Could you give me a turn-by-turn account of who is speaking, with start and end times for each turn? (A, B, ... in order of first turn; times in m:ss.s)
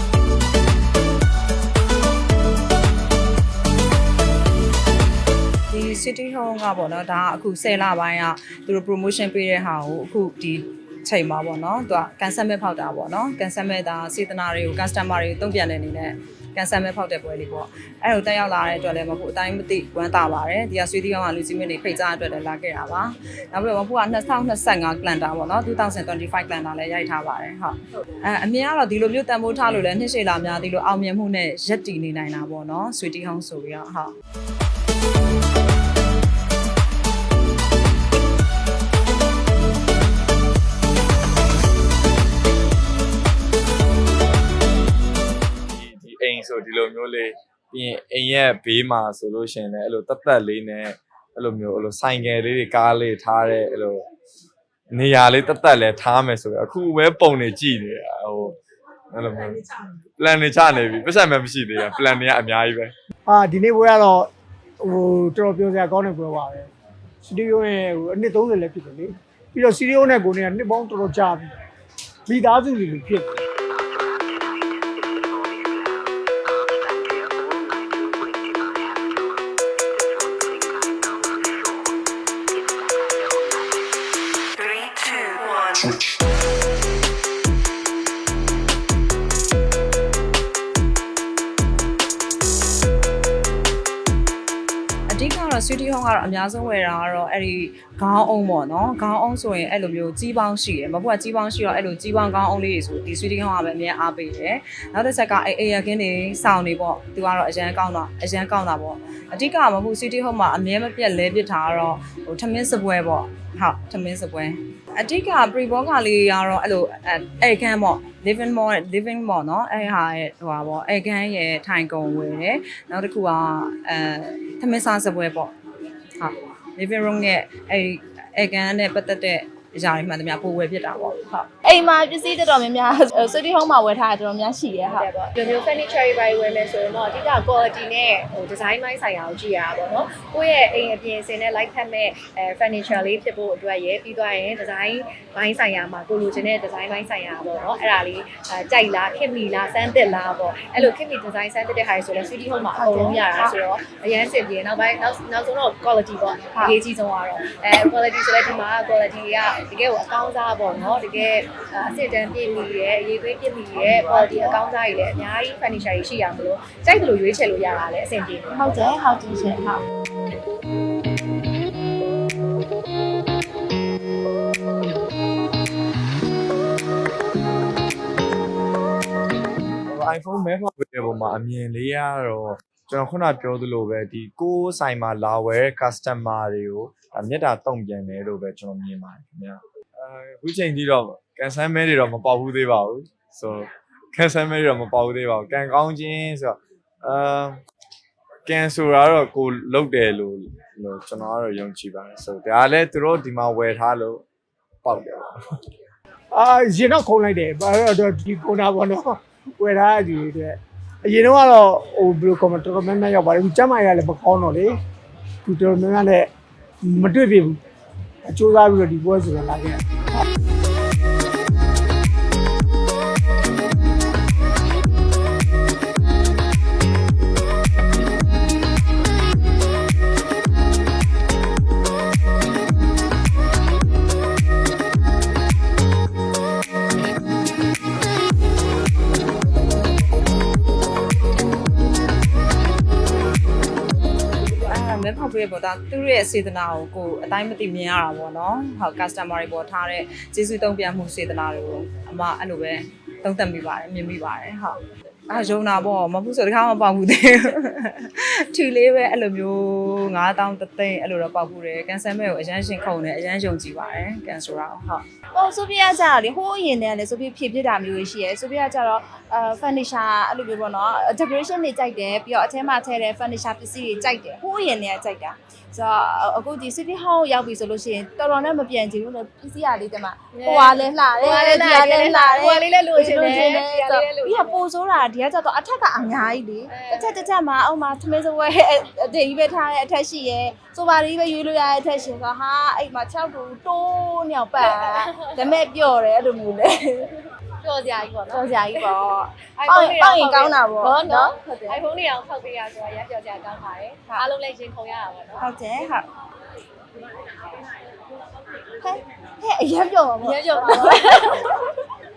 0:05.7-0:34.1 A
0:45.7-0:54.0 B
0:54.9-0:58.6 B
0:59.1-1:02.9 B
1:03.3-1:04.3 C
1:04.8-1:06.7 C
1:07.2-1:11.5 C
1:12.3-1:13.3 C
1:35.1-2:05.5 A
2:06.2-2:11.5 A
2:11.6-2:15.1 D
2:14.8-2:48.6 E
2:32.7-2:33.6 D
2:44.0-2:44.6 D
2:48.5-2:49.8 D
2:59.9-3:17.6 B
3:18.4-3:24.2 B
3:24.8-3:25.3 B
3:26.3-3:34.8 C
3:35.4-3:36.3 C
3:36.8-3:37.6 C
3:38.2-3:40.2 C
4:04.6-4:25.0 A
4:25.3-4:57.1 D
4:40.3-4:44.6 E
4:46.7-4:47.3 E
4:54.7-4:55.3 E
4:57.6-4:58.8 E
4:58.3-5:01.8 D
4:59.6-5:05.5 E
5:05.4-5:06.0 D
5:08.8-5:11.5 D
5:10.2-5:11.4 E